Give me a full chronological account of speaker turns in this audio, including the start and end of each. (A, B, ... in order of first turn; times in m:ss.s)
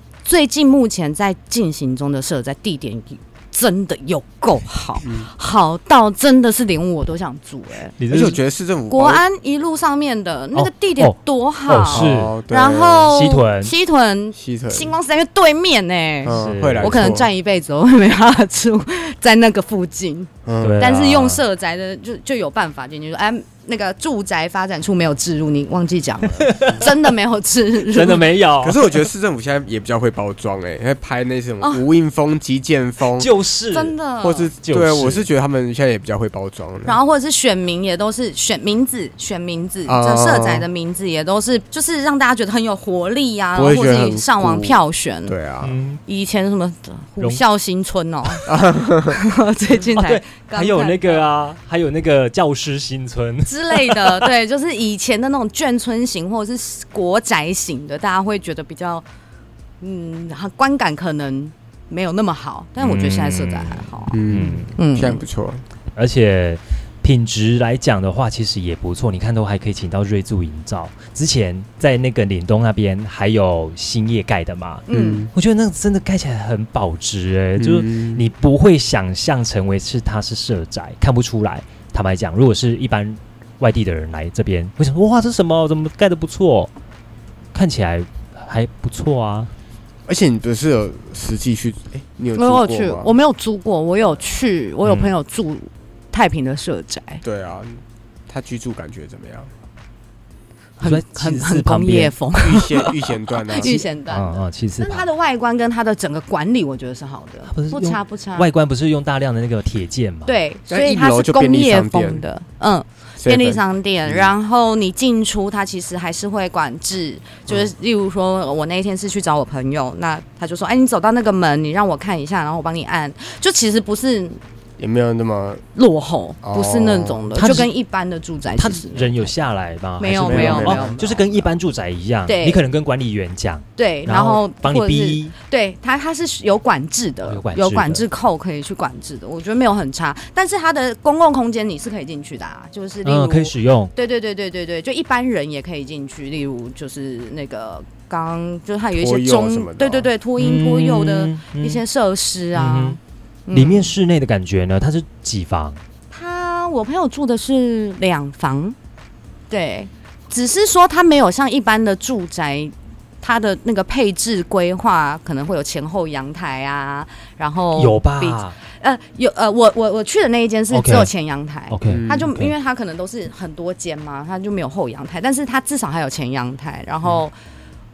0:00.2-0:08.3 A
0:05.0-0:05.3 B
0:08.0-0:08.4 C
0:08.1-0:09.2 B
0:08.9-0:28.3 A
0:10.5-0:11.1 C
0:11.7-0:12.4 C
0:11.8-0:13.1 B
0:13.1-0:13.7 C
0:14.4-0:14.9 B
0:16.2-0:17.1 C
0:16.2-0:17.3 B
0:20.4-0:20.8 B
0:20.6-0:21.4 C
0:26.4-0:26.9 C
0:27.8-0:28.9 C
0:28.6-0:33.3 B
0:33.2-0:34.0 C
0:33.7-0:34.5 A
0:34.2-0:37.0 B
0:34.6-0:35.3 C
0:36.8-0:45.4 A
0:39.8-0:40.7 B
0:43.5-0:45.8 B
0:45.6-0:46.0 C
0:46.0-0:51.2 A
0:48.4-0:49.2 B
0:49.9-0:54.3 C
0:53.4-0:59.0 A
0:59.8-1:04.2 A
1:02.8-1:04.7 C
1:04.1-1:05.6 B
1:04.8-1:05.2 A
1:05.9-1:26.7 C
1:14.9-1:15.3 A
1:14.9-1:15.3 B
1:17.6-1:18.2 B
1:27.5-1:29.5 C
1:30.0-1:33.1 B
1:32.3-1:37.2 A
1:34.8-1:35.1 C
1:37.2-1:39.5 B
1:40.8-1:48.5 A
1:40.8-1:42.2 C
1:42.3-1:43.8 B
1:43.6-1:45.0 C
1:47.5-1:50.4 C
1:50.2-2:04.4 A
1:50.7-1:52.2 B
1:53.2-1:54.3 B
2:04.8-2:05.6 B
2:05.7-2:09.3 A
2:06.4-2:07.4 B
2:07.3-2:07.7 C
2:08.6-2:15.3 C
2:10.0-2:11.0 A
2:10.1-2:11.5 B
2:12.2-2:12.6 A
2:13.8-2:33.9 A
2:17.2-2:18.0 C
2:23.0-2:23.9 C
2:28.9-2:30.1 B
2:30.4-2:31.8 C
2:32.5-2:33.0 C
2:33.5-2:35.8 C
2:36.1-2:38.8 A
2:39.5-2:57.3 A
2:47.7-2:48.6 C
2:50.7-2:51.1 C
2:51.7-2:52.5 C
2:51.9-2:52.4 B